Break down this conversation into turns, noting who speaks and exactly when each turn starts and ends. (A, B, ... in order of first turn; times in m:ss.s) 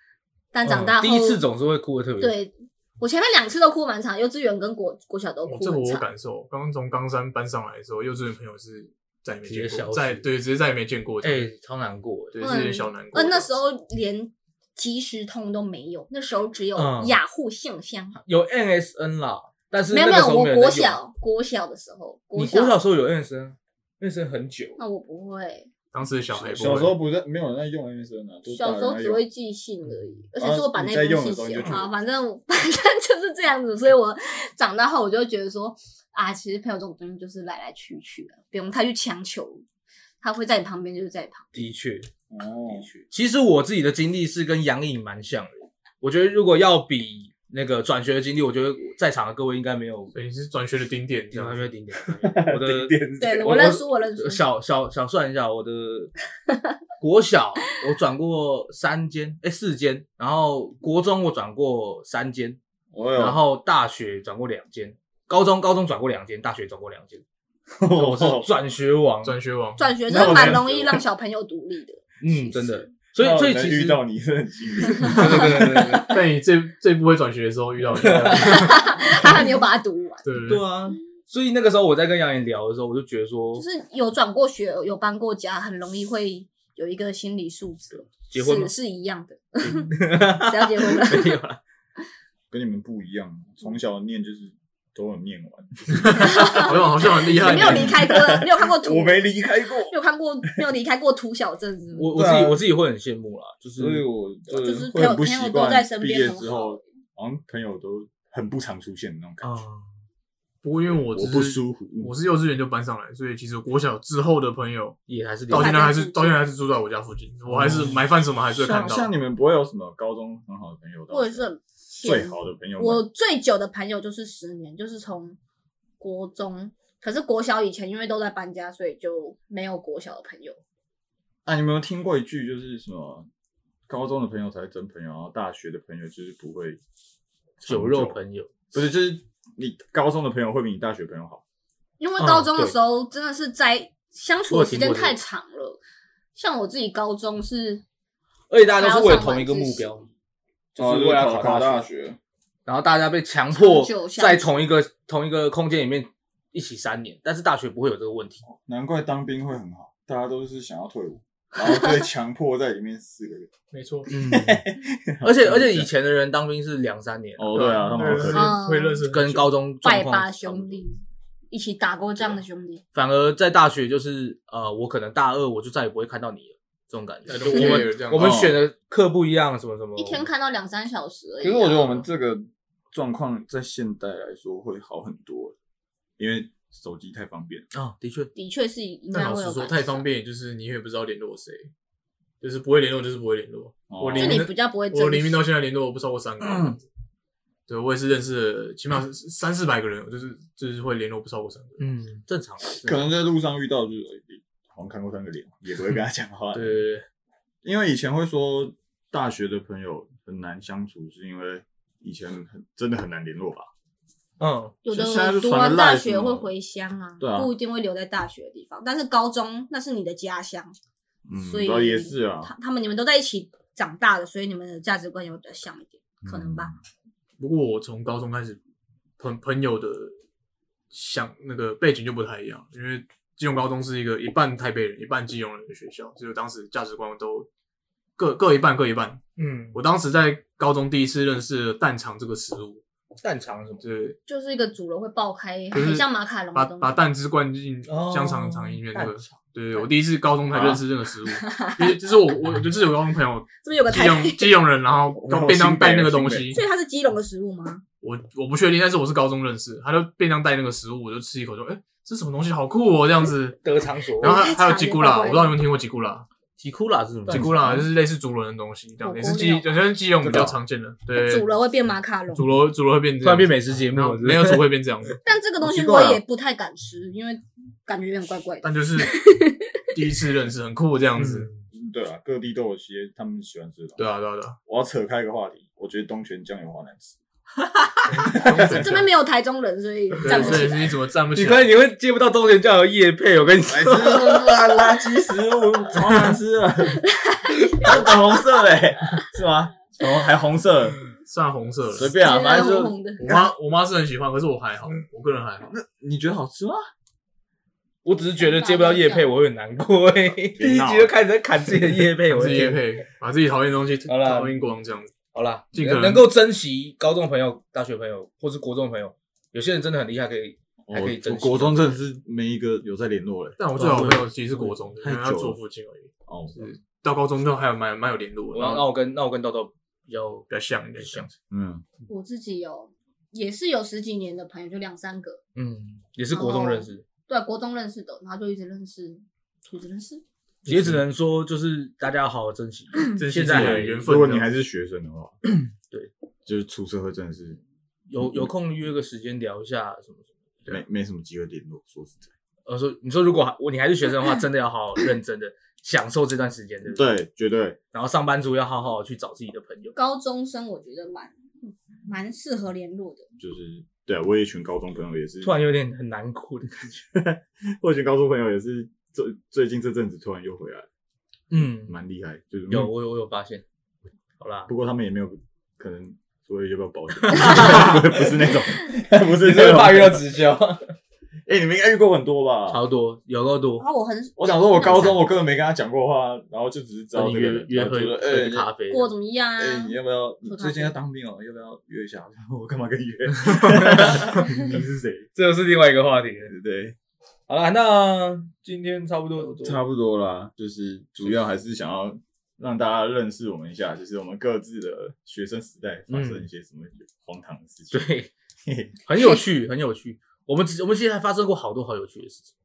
0:00.5-0:01.4 A
0:00.6-0:02.4 B
0:02.2-0:06.0 A
0:05.4-0:11.5 C
0:09.4-0:10.3 B
0:11.2-0:12.4 B
0:12.3-0:13.6 C
0:12.4-0:18.2 A
0:16.8-0:17.2 B
0:18.2-0:21.0 B
0:19.9-0:22.8 A
0:22.3-0:24.8 B
0:24.8-0:25.7 A
0:25.9-0:26.9 C
0:26.3-0:26.9 B
0:26.5-0:29.2 D
0:28.5-0:39.6 A
0:30.4-0:31.9 D
0:31.6-0:31.8 B
0:40.2-0:41.5 A
0:41.5-0:42.1 B
0:42.3-0:42.9 D
0:42.7-0:50.1 B
0:50.1-0:51.7 C
0:51.3-0:56.1 B
0:52.1-0:53.5 D
0:53.2-0:54.4 A
0:57.0-1:02.6 B
1:02.9-1:03.4 D
1:03.1-1:07.2 B
1:07.7-1:08.5 D
1:07.9-1:09.4 B
1:09.2-1:10.6 C
1:09.8-1:12.9 A
1:10.1-1:11.0 D
1:12.2-1:14.0 B
1:13.2-1:15.8 D
1:15.0-1:16.2 B
1:15.2-1:19.3 C
1:15.7-1:16.1 A
1:18.0-1:18.6 B
1:18.3-1:20.2 A
1:20.2-1:20.6 C
1:20.4-1:23.6 B
1:23.6-1:31.4 A
1:28.3-1:28.7 B
1:29.6-1:31.6 B
1:32.5-1:36.8 D
1:36.0-1:38.0 C
1:36.2-1:39.3 A
1:37.3-1:39.9 D
1:39.8-1:42.1 A
1:42.0-1:44.7 B
1:42.1-1:42.6 D
1:43.8-1:49.6 D
1:44.6-1:46.8 A
1:49.4-1:49.8 B
1:50.6-1:59.1 C
1:50.9-1:52.1 D
1:55.1-1:55.8 B
1:55.5-1:56.4 A
1:57.5-1:58.0 D
1:58.5-2:01.4 D
2:01.1-2:05.4 A
2:02.0-2:03.0 D
2:06.0-2:10.6 A
2:11.4-2:13.3 D
2:13.9-2:16.8 D
2:17.6-2:18.2 D
2:17.6-2:18.5 B
2:18.7-2:21.4 D
2:22.0-2:25.8 A
2:22.2-2:22.7 B
2:24.5-2:25.2 B
2:26.3-2:27.8 A
2:28.5-2:30.1 B
2:28.8-2:29.9 A
2:30.7-2:31.9 B
2:30.8-2:32.2 D
2:32.6-2:38.4 B
2:33.5-2:34.5 A
2:38.4-2:43.5 D
2:41.6-2:42.1 A
2:43.7-2:44.1 C
2:44.1-2:44.6 B
2:44.1-2:45.9 D
2:45.2-2:48.2 B
2:47.4-2:48.6 D
2:47.5-2:49.5 C
2:48.3-2:49.0 A
2:49.0-2:50.8 B
2:49.8-2:51.0 A
2:51.5-2:52.8 A
2:52.9-3:00.3 B
2:57.3-2:58.4 C
2:57.5-2:57.9 A
2:58.1-2:58.6 D
3:00.0-3:02.0 A
3:01.4-3:05.5 D
3:06.2-3:07.6 D
3:07.7-3:08.3 B
3:08.3-3:10.0 A
3:09.1-3:11.7 C
3:12.4-3:16.8 C
3:13.9-3:14.5 D
3:14.1-3:15.4 A
3:16.4-3:16.8 B
3:17.7-3:21.9 C
3:21.8-3:23.1 B
3:22.8-3:26.8 D
3:26.5-3:27.0 B
3:27.6-3:33.7 D
3:34.4-3:34.8 B
3:34.8-3:40.7 A
3:34.9-3:36.5 D
3:37.2-3:37.5 D
3:41.2-3:42.5 D
3:41.4-3:46.7 A
3:46.2-3:46.8 D
3:47.4-3:48.6 C
3:49.2-3:50.2 C
3:50.9-3:57.5 C
3:58.2-3:59.2 C
3:59.4-3:59.8 B
3:59.7-4:02.8 C
4:03.2-4:03.8 B
4:03.8-4:04.2 C
4:04.3-4:07.1 A
4:05.7-4:16.6 C
4:07.9-4:09.4 B
4:10.5-4:10.8 D
4:11.3-4:12.0 A
4:13.6-4:14.6 A
4:15.1-4:16.6 D
4:16.5-4:17.8 A
4:18.0-4:23.6 C
4:23.6-4:24.4 B
4:24.2-4:26.2 C
4:24.2-4:25.6 A
4:26.6-4:27.8 B
4:27.3-4:27.9 D
4:27.3-4:31.5 C
4:29.0-4:29.7 A
4:30.2-4:30.6 D
4:31.2-4:32.5 A
4:32.3-4:35.2 C
4:33.2-4:34.7 B
4:35.2-4:39.7 A
4:35.6-4:36.2 D
4:38.6-4:39.2 C
4:39.9-4:41.5 C
4:41.2-4:41.6 B
4:41.7-4:44.0 D
4:44.0-4:44.6 C
4:44.6-4:47.2 D
4:48.1-4:49.1 C
4:48.2-4:49.0 D
4:48.6-4:50.8 A
4:50.2-4:51.7 C
4:50.3-4:50.7 B
4:51.3-4:54.5 B
4:53.6-4:57.0 D
4:57.0-4:58.2 A
4:57.8-5:01.0 D
5:01.3-5:02.7 C
5:01.9-5:03.5 D
5:02.1-5:03.2 A
5:03.2-5:05.7 C
5:05.7-5:06.8 D
5:08.0-5:12.8 B
5:08.1-5:09.3 A
5:10.6-5:11.1 D
5:12.3-5:15.1 C
5:14.1-5:14.6 B
5:15.3-5:21.9 B
5:15.7-5:16.3 C
5:20.9-5:24.2 D
5:23.6-5:28.8 C
5:23.8-5:24.8 B
5:25.0-5:25.6 D
5:26.3-5:26.6 D
5:28.5-5:31.3 B
5:30.5-5:31.3 C
5:31.5-5:31.8 D
5:32.1-5:35.4 A
5:35.6-5:37.0 B
5:36.3-5:40.2 A
5:40.6-5:44.1 B
5:40.6-5:41.0 C
5:43.1-5:44.5 C
5:43.5-5:45.4 D
5:45.5-5:46.1 B
5:46.4-5:47.6 D
5:48.1-5:50.3 B
5:48.2-5:48.5 D
5:50.7-5:52.3 D
5:52.7-5:57.0 B
5:56.9-5:57.8 D
5:57.9-5:59.9 B
5:59.9-6:03.2 A
6:03.4-6:05.6 D
6:05.4-6:07.0 B
6:07.1-6:10.9 D
6:11.5-6:12.0 B
6:11.8-6:12.9 D
6:12.7-6:13.6 B
6:14.4-6:14.7 B
6:14.7-6:20.2 D
6:17.3-6:18.5 B
6:19.3-6:20.8 B
6:21.5-6:22.8 D
6:22.7-6:23.8 B
6:23.8-6:25.2 A
6:24.4-6:28.7 D
6:27.1-6:29.1 B
6:28.9-6:31.0 A
6:29.6-6:35.3 D
6:33.4-6:34.4 B
6:35.4-6:36.5 B
6:36.5-6:37.0 D
6:37.5-6:39.8 B
6:39.5-6:48.0 D
6:46.1-6:46.4 B
6:47.9-6:48.3 B
6:48.6-6:48.9 D
6:49.0-6:52.5 B